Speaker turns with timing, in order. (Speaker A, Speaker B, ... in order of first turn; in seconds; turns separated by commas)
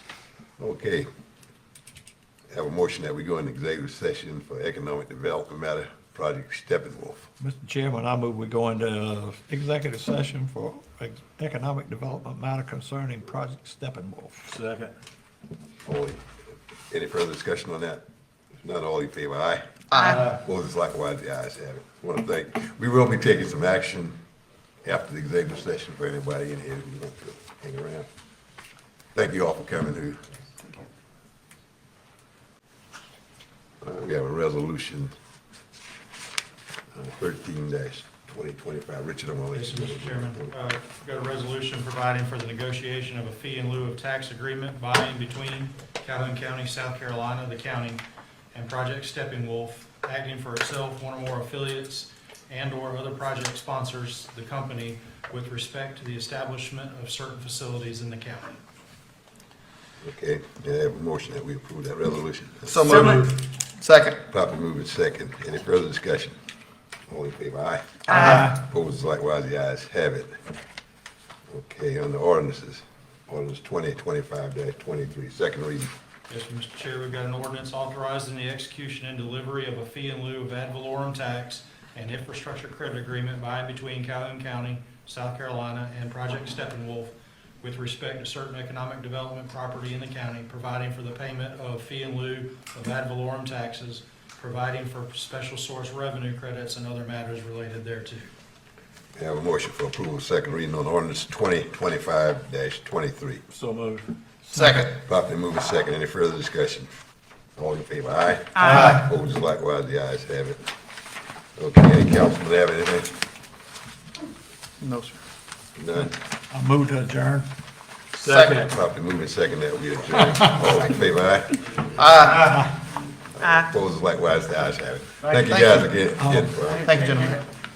Speaker A: 0.6-1.1, Speaker A: 2.5-7.3, Speaker B: 7.4-14.6, Speaker A: 15.8-16.2, Speaker A: 16.9-18.0, Speaker A: 18.6-24.2, Speaker C: 19.9-20.2, Speaker A: 24.8-28.1, Speaker A: 29.1-30.2, Speaker A: 33.8-35.1, Speaker A: 36.9-40.5, Speaker D: 39.5-58.6, Speaker A: 60.0-63.1, Speaker C: 62.7-64.2, Speaker A: 64.3-66.4, Speaker A: 67.1-70.4, Speaker C: 68.1-68.4, Speaker A: 71.5-75.9, Speaker D: 76.3-98.3, Speaker A: 99.1-103.4, Speaker B: 103.5-104.7, Speaker C: 104.5-104.9, Speaker A: 104.8-106.9, Speaker A: 107.6-110.6, Speaker A: 111.6-113.2, Speaker C: 114.8-115.2, Speaker A: 115.8-116.1, Speaker B: 116.5-117.5, Speaker C: 118.2-118.7, Speaker A: 118.4-121.8, Speaker C: 122.0-122.7, Speaker A: 123.4-126.9, Speaker C: 125.3-125.8, Speaker B: 126.2-126.7, Speaker C: 126.7-127.4